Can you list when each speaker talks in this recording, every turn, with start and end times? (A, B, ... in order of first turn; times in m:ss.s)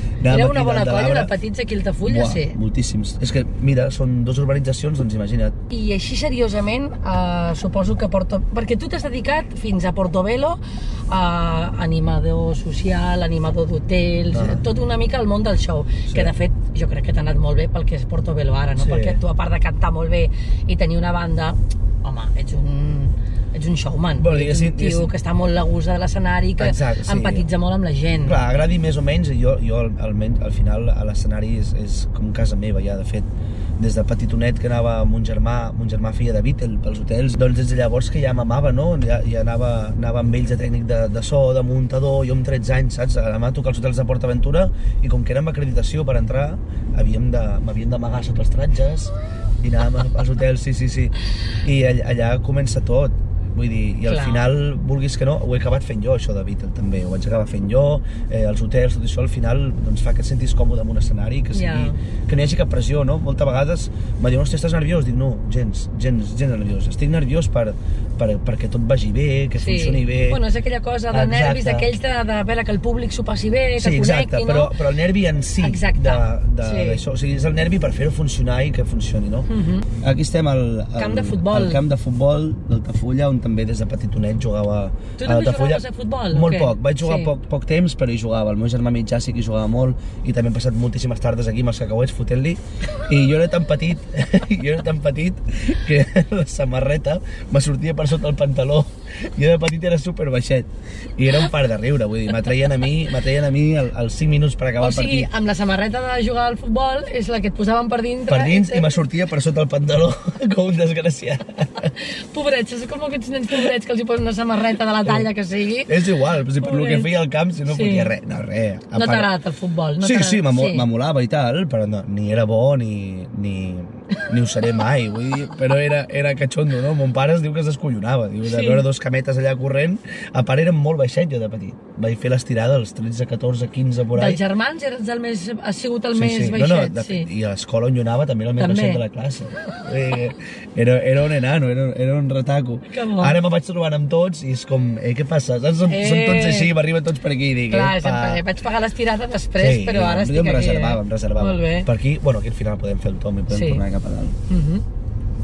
0:00.2-0:01.3 A
0:00.3-0:02.6 B
0:02.0-0:05.6 A
0:05.7-0:28.4 B
0:14.3-0:14.6 A
0:18.8-0:19.2 A
0:24.2-0:25.1 A
0:26.6-0:27.5 A
0:28.2-1:10.4 A
0:54.1-0:54.4 B
1:01.5-1:02.0 B
1:09.6-1:14.8 B
1:11.1-1:11.9 A
1:13.8-1:19.5 A
1:15.6-1:17.0 B
1:19.5-1:19.9 B
1:20.0-1:45.3 A
1:21.0-1:21.8 B
1:25.2-1:27.4 B
1:44.8-1:49.0 B
1:48.3-1:51.9 A
1:52.3-1:56.0 B
1:55.9-1:59.3 A
1:56.6-1:57.1 B
1:57.7-1:58.1 B
1:58.9-2:00.9 B
2:00.0-2:14.4 A
2:08.4-2:08.8 B
2:14.1-2:17.3 B
2:16.1-2:28.4 A
2:18.6-2:19.0 B
2:22.9-2:23.4 B
2:25.9-2:26.7 B
2:27.7-2:31.9 B
2:29.6-2:34.4 A
2:33.5-2:33.8 B
2:34.5-2:34.8 B